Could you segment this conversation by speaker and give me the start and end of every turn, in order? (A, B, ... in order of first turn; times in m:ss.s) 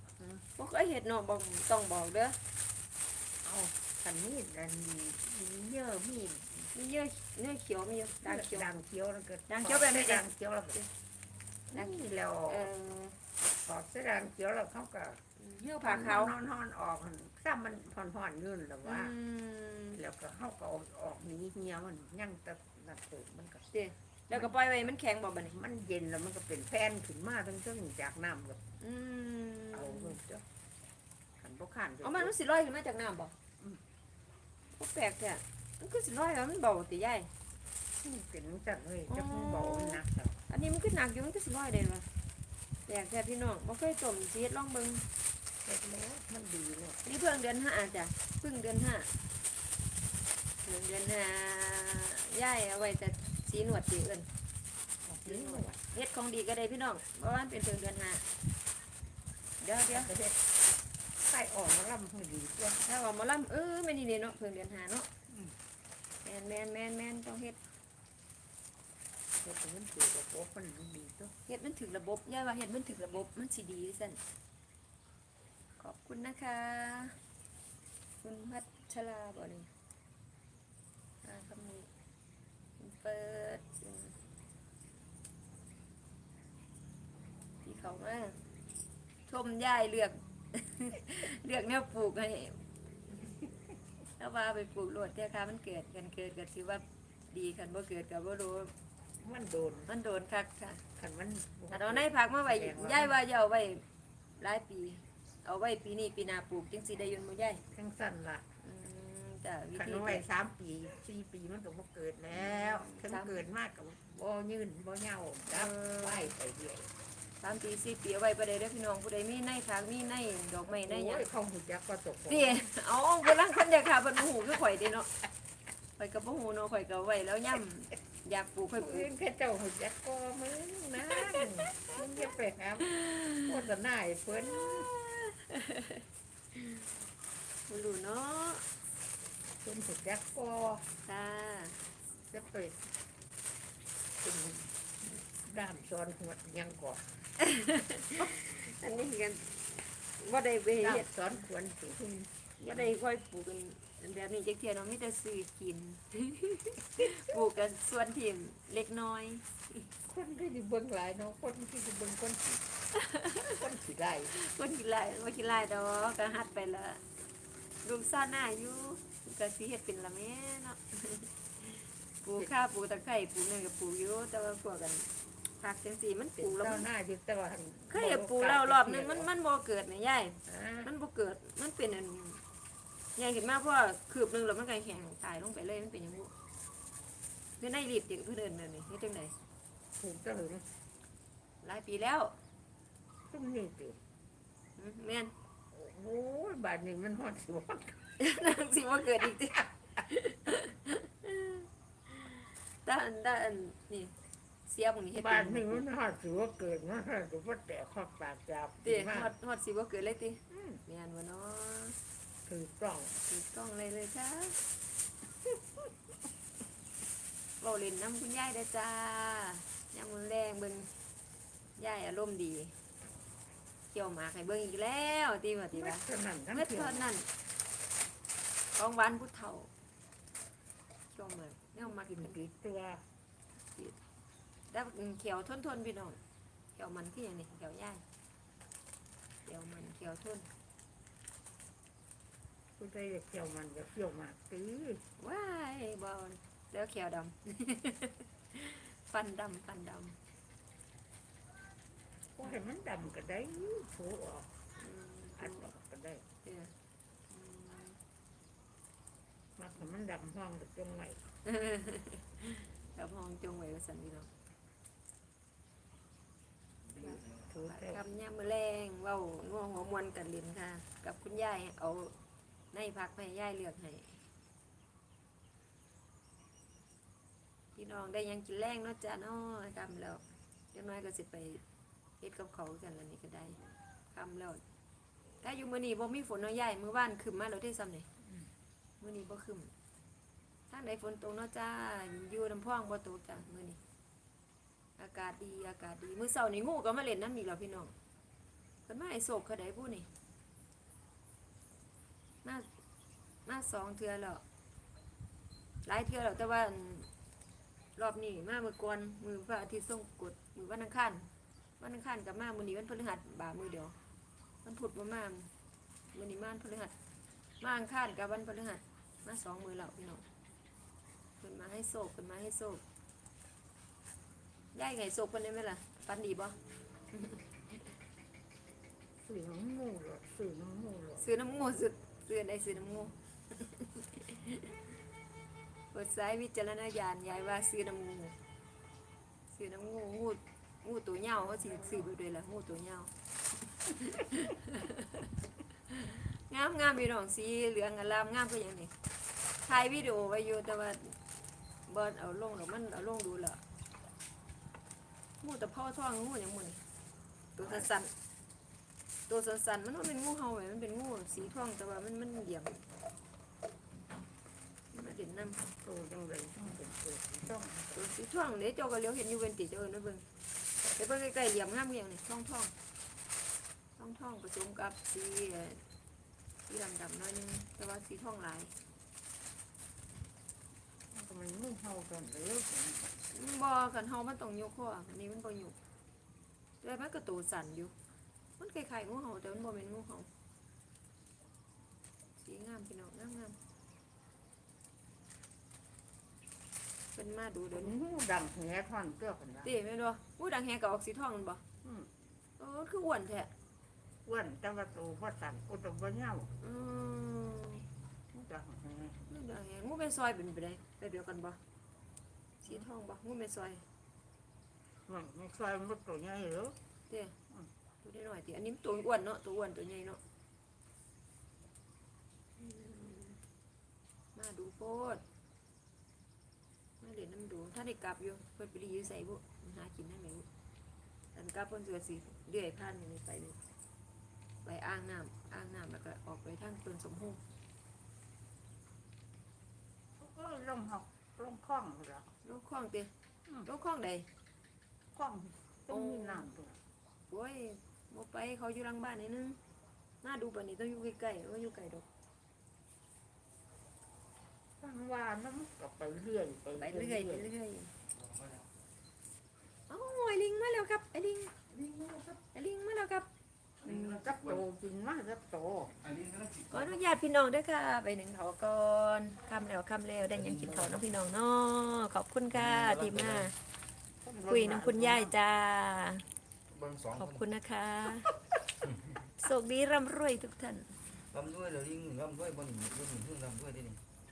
0:00.2-0:00.4 A
0:00.6-0:02.4 B
0:03.4-0:06.7 A
0:06.7-0:08.7 B
0:08.2-0:10.8 A
0:09.5-0:10.2 B
0:11.7-0:12.7 A
0:12.5-0:13.2 B
0:13.6-0:15.2 A
0:15.4-0:16.4 B
0:15.8-0:19.1 A
0:18.8-0:20.0 B
0:19.9-0:23.6 A
0:23.7-0:25.6 B
0:25.4-0:28.6 A
0:28.8-0:30.2 B
0:29.7-0:30.4 A
0:31.4-0:32.3 A
0:32.0-0:33.4 B
0:34.8-0:37.3 B
0:38.0-0:40.4 A
0:39.1-0:42.1 B
0:42.9-0:45.0 B
0:45.6-0:47.0 A
0:47.0-0:49.1 B
0:50.6-0:54.3 B
0:55.0-0:55.8 A
0:55.2-0:58.2 B
0:59.6-1:00.1 B
0:59.9-1:00.4 A
1:01.2-1:02.8 A
1:02.8-1:05.1 B
1:05.3-1:05.5 A
1:06.2-1:07.6 B
1:09.4-1:11.3 A
1:11.5-1:14.2 B
1:15.8-1:17.2 B
1:18.2-1:19.7 B
1:21.2-1:21.9 B
1:22.8-1:24.2 B
1:27.6-1:28.4 B
1:29.3-1:32.6 B
1:33.2-1:33.5 A
1:34.2-1:38.7 B
1:39.2-1:39.9 A
1:39.9-1:40.8 B
1:41.0-1:43.2 A
1:41.7-1:43.8 B
1:44.4-1:47.6 B
1:47.7-1:48.4 A
1:48.6-1:50.2 B
1:49.8-1:56.9 A
1:52.4-1:53.4 B
1:55.5-1:56.3 B
1:57.4-2:01.2 B
2:00.7-2:02.7 A
2:02.3-2:05.1 B
2:06.0-2:09.1 B
2:08.8-2:12.9 A
2:11.0-2:11.5 B
2:12.9-2:13.5 B
2:13.4-2:14.9 A
2:14.5-2:16.0 B
2:16.5-2:16.8 B
2:17.7-2:18.6 B
2:19.6-2:20.9 A
2:21.0-2:21.8 B
2:22.3-2:22.9 A
2:24.2-2:24.8 A
2:25.2-2:27.2 A
2:27.4-2:31.1 B
2:30.8-2:32.9 A
2:32.6-2:39.8 B
2:40.0-2:42.6 A
2:43.0-2:43.5 B
2:43.5-2:44.3 A
2:44.3-2:47.0 B
2:47.8-2:56.8 B
2:56.4-2:59.3 A
2:57.9-3:02.4 B
3:00.5-3:00.9 A
3:03.2-3:06.3 B
3:07.6-3:09.3 B
3:10.0-3:10.7 A
3:11.6-3:12.3 B
3:13.3-3:14.0 A
3:14.8-3:15.3 B
3:15.7-3:18.0 A
3:18.2-3:24.2 B
3:24.7-3:25.8 B
3:25.2-3:29.3 A
3:28.8-3:32.0 B
3:30.5-3:30.8 A
3:32.5-3:33.2 A
3:33.3-3:34.6 B
3:35.4-3:35.9 A
3:37.6-3:40.9 B
3:41.8-3:42.8 B
3:43.9-3:47.3 B
3:45.7-3:47.0 A
3:48.8-3:49.7 B
3:51.1-3:52.4 B
3:51.8-3:53.0 A
3:54.7-3:56.2 B
3:56.8-3:58.0 B
3:59.4-4:00.5 B
4:02.8-4:05.0 A
4:05.2-4:10.2 B
4:12.4-4:14.5 A
4:14.8-4:15.6 B
4:15.4-4:16.2 A
4:16.4-4:16.7 B
4:17.3-4:18.0 B
4:19.6-4:21.2 A
4:21.4-4:24.3 B
4:27.0-4:28.0 A
4:27.0-4:32.1 B
4:32.7-4:34.2 B
4:37.8-4:41.6 B
4:42.2-4:44.6 B
4:45.4-4:48.1 B
4:49.0-4:49.7 B
4:50.7-4:53.8 B
4:55.0-4:57.9 B
4:58.8-5:00.1 B
5:03.5-5:04.4 B
5:05.8-5:07.1 B
5:08.0-5:11.3 B
5:11.8-5:14.0 B
5:14.6-5:15.5 B
5:16.1-5:16.9 B
5:17.6-5:20.2 B
5:21.4-5:22.8 B
5:24.7-5:26.6 B
5:27.1-5:27.4 B
5:29.2-5:31.2 A
5:31.2-5:34.7 B
5:35.9-5:38.4 B
5:39.5-5:43.1 B
5:43.9-5:45.2 B
5:45.9-5:48.9 B
5:49.6-5:51.2 B
5:51.9-5:53.6 B
5:55.4-5:56.8 B
5:57.6-5:58.1 B
5:57.6-5:57.9 A
5:59.3-6:02.8 B
6:04.9-6:05.6 B
6:05.7-6:08.0 A
6:08.0-6:10.2 B
6:11.0-6:12.7 B
6:14.0-6:15.8 B
6:16.7-6:18.7 B
6:21.1-6:23.1 A
6:23.3-6:25.8 B
6:26.8-6:27.9 B
6:28.6-6:30.3 B
6:32.4-6:33.6 B
6:37.2-6:37.9 B
6:37.7-6:39.7 A
6:39.6-6:41.6 B
6:41.8-6:42.1 A
6:42.6-6:43.5 B
6:44.2-6:46.6 A
6:46.6-6:47.8 B
6:48.3-6:49.2 A
6:49.3-6:51.6 B
6:52.6-6:53.8 B
6:55.0-6:56.8 A
6:57.1-6:57.3 B
6:58.0-7:00.2 B
7:02.6-7:03.4 B
7:04.3-7:05.2 B
7:07.0-7:10.5 B
7:11.3-7:13.6 B
7:14.6-7:17.4 B
7:20.2-7:22.3 A
7:22.4-7:23.1 B
7:23.7-7:24.3 B
7:25.2-7:26.8 A
7:25.9-7:26.5 B
7:27.3-7:29.6 B
7:30.2-7:32.0 B
7:34.8-7:37.5 A
7:36.8-7:37.9 B
7:38.2-7:38.7 C
7:39.9-7:41.6 B
7:41.7-7:42.4 A
7:42.5-7:43.3 B
7:43.8-7:44.6 C
7:43.8-7:46.0 A
7:46.0-7:47.0 C
7:46.7-7:53.5 B
7:50.3-7:51.0 C
7:52.5-7:53.5 C
7:54.2-7:55.3 A
7:54.5-7:56.2 B
7:56.7-7:57.4 C
7:57.2-7:58.3 B
7:59.4-8:01.0 B
8:01.2-8:04.0 C